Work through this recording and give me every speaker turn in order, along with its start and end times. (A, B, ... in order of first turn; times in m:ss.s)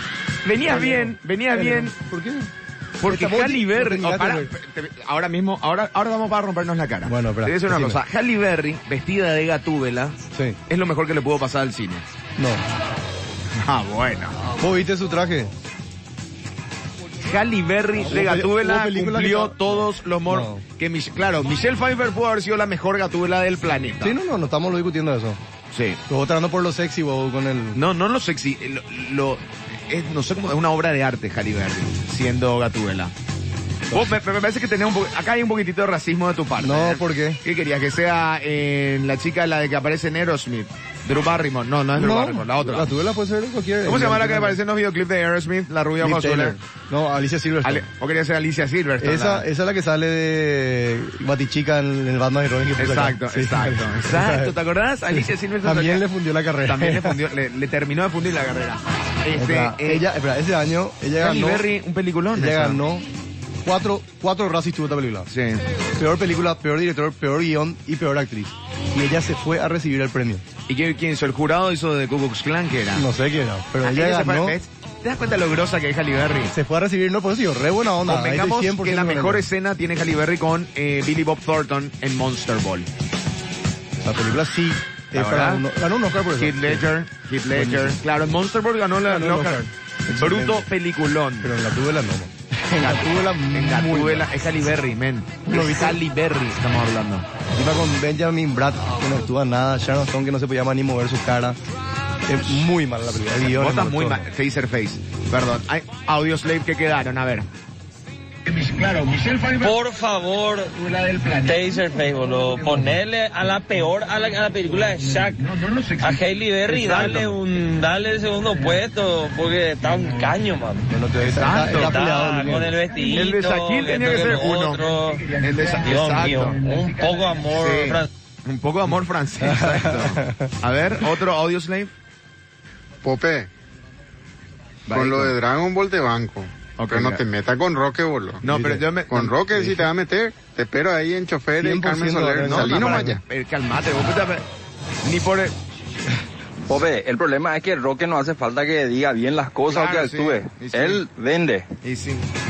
0:00.4-0:01.9 A
0:00.6-0:02.5 B
0:03.0-0:10.2 A
0:03.0-0:04.5 B
0:07.0-0:08.0 B
0:10.3-0:10.6 B
0:10.7-0:12.0 A
0:12.4-0:12.6 B
0:13.6-0:14.4 A
0:14.6-0:15.5 B
0:17.2-0:24.2 A
0:18.0-0:20.6 B
0:24.0-0:25.4 B
0:25.7-0:26.0 A
0:26.1-0:27.8 B
0:27.7-0:33.1 A
0:33.9-0:42.9 A
0:36.6-0:37.4 B
0:41.9-0:44.6 B
0:43.8-0:46.6 A
0:46.0-0:47.9 B
0:47.6-0:49.4 A
0:49.0-0:54.6 B
0:52.8-0:56.0 A
0:55.1-0:57.2 B
0:56.6-1:00.0 A
0:59.3-1:01.7 B
1:01.2-1:02.8 A
1:02.3-1:03.1 B
1:03.6-1:05.3 B
1:05.3-1:05.6 A
1:06.0-1:10.4 B
1:10.7-1:13.0 A
1:12.9-1:14.6 B
1:13.8-1:16.5 A
1:16.5-1:19.5 B
1:18.0-1:22.9 A
1:24.0-1:26.8 B
1:25.1-1:25.6 A
1:26.4-1:29.6 A
1:27.5-1:28.0 B
1:29.0-1:30.7 B
1:30.2-1:31.5 A
1:31.4-1:34.3 B
1:32.8-1:37.2 A
1:35.5-1:36.0 B
1:37.5-1:41.6 B
1:42.2-1:44.3 B
1:43.4-1:47.5 A
1:48.5-2:08.1 C
1:56.7-1:57.2 A
2:00.9-2:02.8 B
2:01.2-2:02.2 A
2:03.1-2:04.8 A
2:05.4-2:06.6 A
2:07.6-2:11.9 A
2:09.4-2:10.5 B
2:13.0-2:13.5 D
2:14.9-2:15.3 A
2:14.9-2:18.4 D
2:16.8-2:17.2 A
2:18.4-2:19.8 A
2:18.4-2:18.9 B
2:19.1-2:23.2 D
2:21.6-2:23.2 B
2:22.4-2:24.4 A
2:25.0-2:25.5 A
2:26.7-2:31.6 E
2:29.7-2:31.0 A
2:31.8-2:32.2 A